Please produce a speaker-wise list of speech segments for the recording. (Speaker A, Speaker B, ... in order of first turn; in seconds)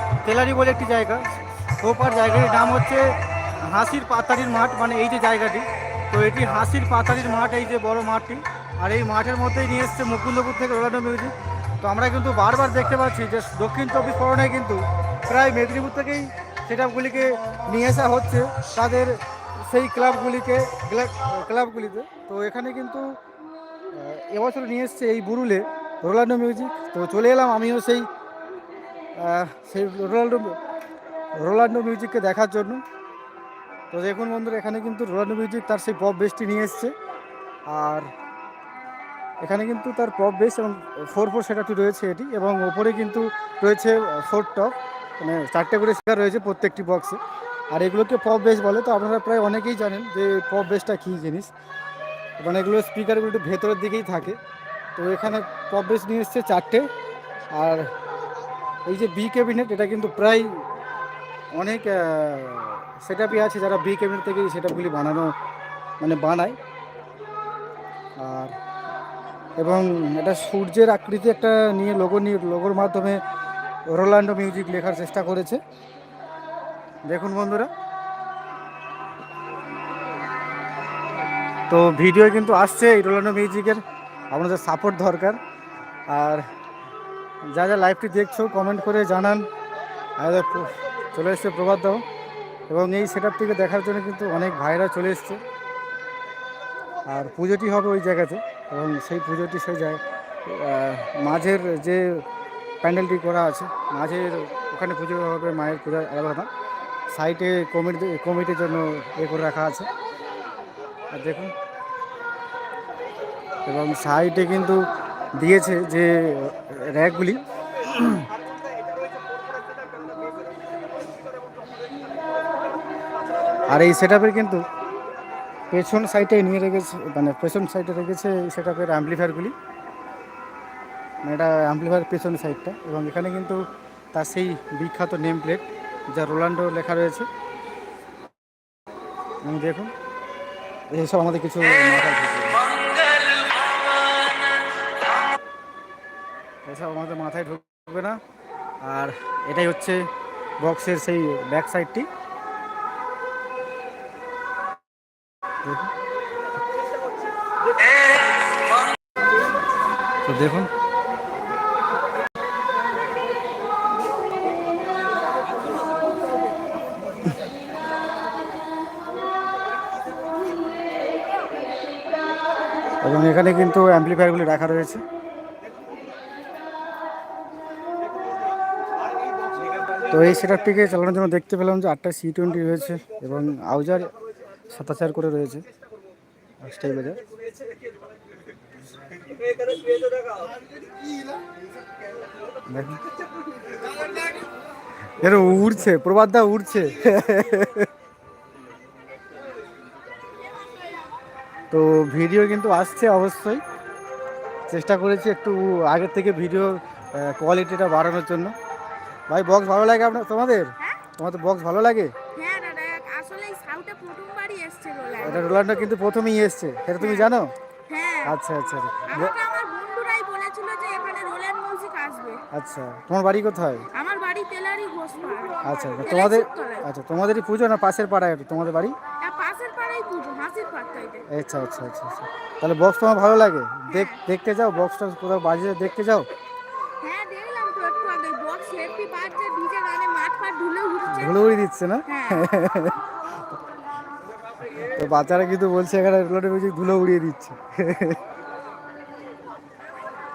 Speaker A: 0.2-1.2, 1.8-3.1, 3.7-23.1, 23.9-28.1, 29.2-30.6, 31.4-32.8, 33.9-36.9, 37.7-38.1, 39.4-47.2, 47.7-51.5, 52.4-54.4, 55.0-56.9, 57.5-57.9, 58.9-60.5, 61.5-65.3, 66.0-66.6, 68.2-68.5, 69.6-73.2, 73.9-75.6, 77.1-77.7, 81.7-85.4, 86.1-86.4, 87.5-89.5, 90.2-92.0, 92.7-95.4, 97.1-102.2, 102.8-106.5, 107.1-109.9, 111.1-111.5, 113.7-114.8, 115.4-118.2, 123.7-124.6, 125.7-129.5, 131.2-133.6, 134.1-137.3, 139.4-139.9, 140.9-142.7, 146.7-148.2, 148.8-150.1, 150.6-152.1, 155.6-155.9, 160.3-160.7, 173.0-175.0, 180.1-184.1, 184.7-185.6, 186.6-187.2, 192.7-193.0, 195.2-197.9, 201.7-203.6, 204.7-208.5, 209.3-212.1, 215.2-217.5, 218.3-219.3, 222.5-223.9, 225.6-229.0, 231.3-236.3, 241.1-243.0, 244.8-248.2
Speaker B: 212.3-215.9, 217.0-217.3, 217.9-218.4, 219.1-222.4, 223.9-226.9, 229.2-231.3, 233.9-234.2, 237.0-241.5, 242.1-242.6